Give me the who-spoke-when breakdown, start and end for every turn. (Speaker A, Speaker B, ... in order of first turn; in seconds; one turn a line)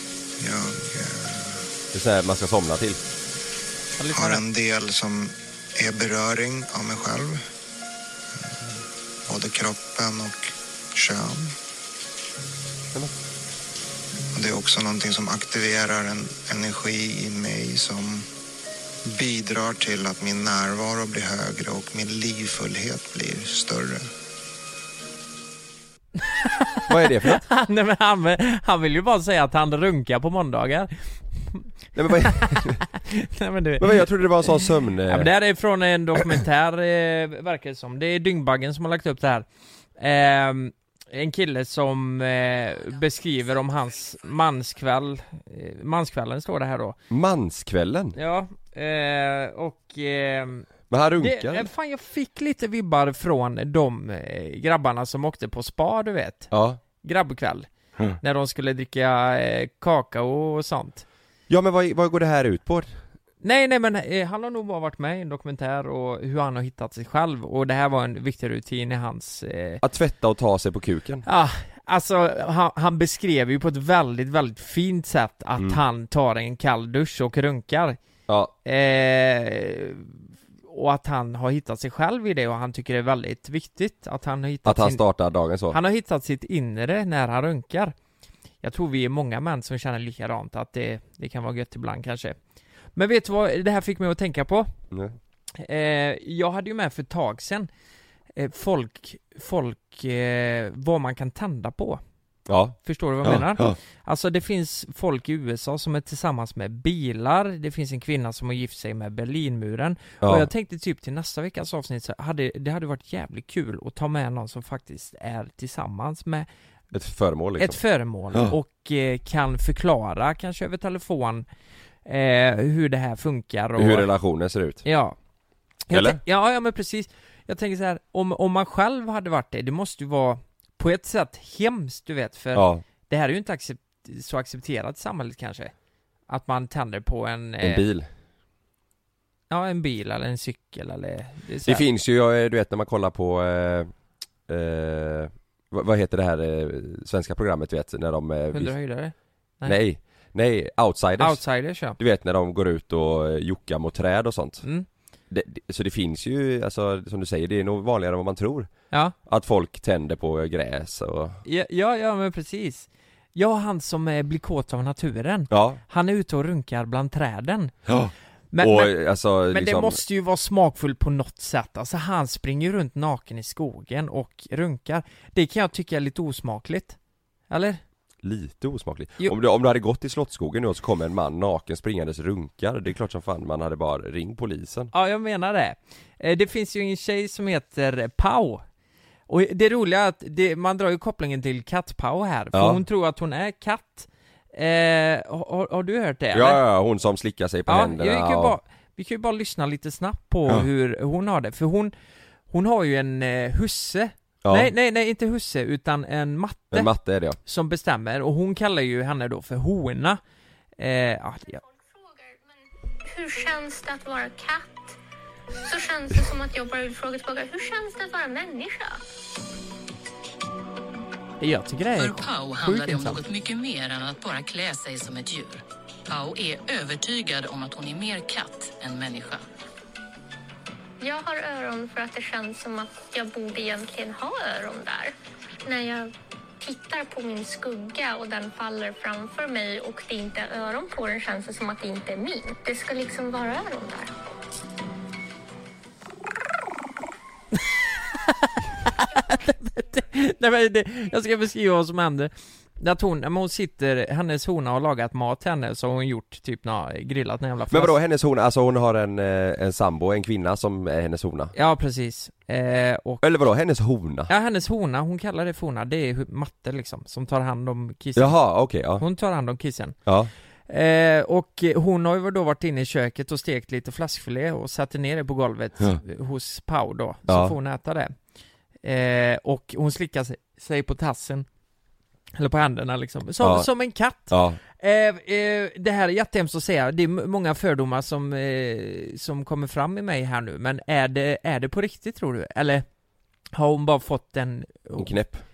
Speaker A: 0.4-1.6
Speaker B: 1.9-3.0
Speaker C: 4.0-4.4
Speaker A: 4.1-7.4
Speaker A: 9.3-11.5
Speaker A: 14.3-18.3
Speaker A: 19.1-24.1
Speaker C: 26.2-39.5
Speaker B: 26.9-27.4
Speaker B: 32.0-32.8
Speaker B: 33.8-35.3
Speaker C: 40.0-47.0
Speaker B: 47.1-48.2
Speaker C: 48.2-50.7
Speaker B: 50.9-51.7
Speaker C: 51.2-56.5
Speaker B: 56.5-56.8
Speaker C: 57.0-57.7
Speaker C: 58.2-61.0
Speaker B: 61.5-63.0
Speaker C: 63.4-69.8
Speaker B: 69.8-71.3
Speaker C: 71.3-78.0
Speaker B: 78.3-78.5
Speaker C: 78.7-85.0
Speaker B: 84.7-85.8
Speaker C: 85.7-87.9
Speaker C: 88.6-92.4
Speaker C: 93.0-94.7
Speaker C: 95.6-97.7
Speaker C: 98.4-102.0
Speaker B: 102.5-103.8
Speaker C: 102.8-116.5
Speaker B: 110.2-110.5
Speaker B: 116.9-117.8
Speaker C: 117.6-121.5
Speaker C: 122.1-124.1
Speaker B: 123.8-124.8
Speaker C: 124.8-125.2
Speaker C: 125.9-135.7
Speaker B: 125.9-126.2
Speaker B: 132.5-132.8
Speaker C: 136.3-137.8
Speaker B: 137.6-138.1
Speaker C: 139.5-141.8
Speaker B: 141.7-143.9
Speaker B: 144.5-148.8
Speaker C: 148.5-149.8
Speaker B: 149.7-154.7
Speaker C: 151.2-152.0
Speaker B: 155.3-158.7
Speaker B: 159.3-161.4
Speaker C: 161.4-167.8
Speaker B: 165.5-165.8
Speaker B: 167.9-170.0
Speaker C: 168.5-168.9
Speaker C: 169.5-177.0
Speaker C: 177.5-177.8
Speaker B: 178.2-184.9
Speaker C: 184.9-188.6
Speaker C: 189.3-196.6
Speaker B: 192.5-192.8
Speaker B: 196.3-198.6
Speaker C: 197.7-201.9
Speaker C: 202.5-206.9
Speaker B: 204.4-204.7
Speaker B: 206.7-207.4
Speaker C: 207.4-210.2
Speaker C: 210.8-211.6
Speaker D: 211.8-212.4
Speaker D: 213.1-215.0
Speaker D: 215.6-219.0
Speaker C: 221.4-223.2
Speaker E: 222.0-229.4
Speaker D: 231.0-235.1
Speaker D: 235.7-244.2
Speaker C: 247.6-257.9
Speaker B: 257.7-261.5
Speaker C: 261.5-263.2
Speaker B: 263.2-264.3
Speaker C: 264.3-270.0
Speaker B: 268.2-269.0
Speaker B: 270.1-270.3
Speaker C: 270.7-278.1
Speaker B: 277.3-277.6
Speaker C: 278.8-281.4
Speaker C: 282.4-292.9
Speaker B: 283.4-283.7
Speaker B: 284.3-284.6
Speaker C: 293.6-295.1
Speaker B: 295.0-295.4